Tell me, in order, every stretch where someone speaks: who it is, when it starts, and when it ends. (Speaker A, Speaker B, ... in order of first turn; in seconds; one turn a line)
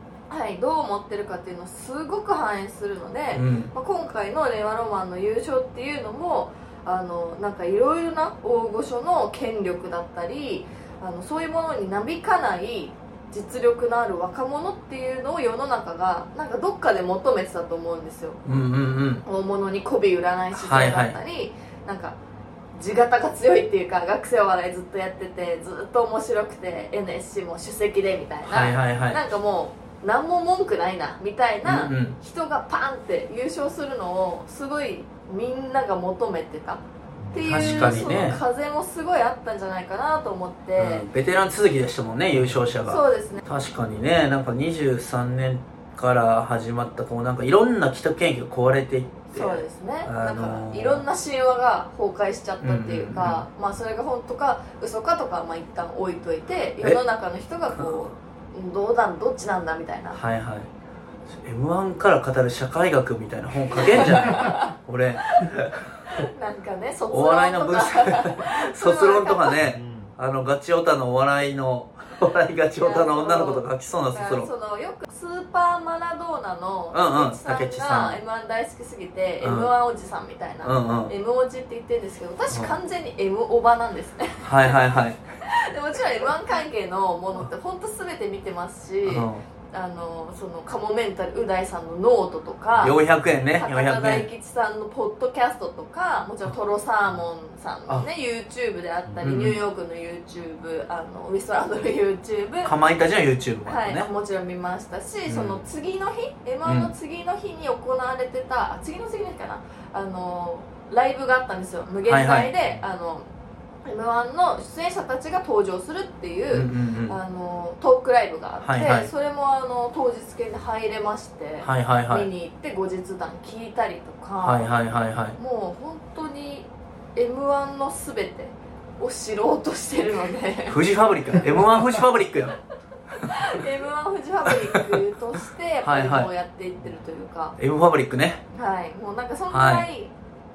Speaker A: 0.3-18.4
Speaker B: 3.3-3.7
Speaker B: 18.4-19.2
Speaker A: 19.2-22.1
Speaker B: 20.5-21.2
Speaker A: 22.8-41.0
Speaker B: 28.4-29.2
Speaker B: 31.6-32.2
Speaker B: 37.4-38.4
Speaker B: 40.8-51.0
Speaker A: 42.9-43.4
Speaker A: 49.3-60.2
Speaker B: 52.6-53.4
Speaker B: 57.7-58.1
Speaker B: 60.1-60.7
Speaker B: 61.3-66.3
Speaker A: 63.8-64.7
Speaker A: 66.1-69.6
Speaker B: 67.1-74.5
Speaker A: 72.8-84.9
Speaker B: 76.9-78.2
Speaker B: 79.4-79.7
Speaker B: 80.6-81.1
Speaker B: 82.5-82.8
Speaker B: 84.4-85.2
Speaker A: 85.4-102.7
Speaker B: 89.0-89.4
Speaker B: 92.8-94.3
Speaker B: 99.2-99.6
Speaker B: 102.6-104.1
Speaker A: 103.7-113.2
Speaker B: 105.3-105.6
Speaker B: 106.6-106.9
Speaker B: 112.1-112.5
Speaker A: 113.8-124.7
Speaker B: 116.5-117.2
Speaker B: 118.6-119.1
Speaker B: 121.6-122.3
Speaker B: 124.4-125.4
Speaker A: 125.4-131.6
Speaker B: 130.7-132.6
Speaker A: 133.2-137.6
Speaker B: 133.2-133.6
Speaker B: 134.5-135.0
Speaker B: 135.8-136.3
Speaker B: 137.6-138.4
Speaker A: 138.5-140.1
Speaker B: 139.5-139.9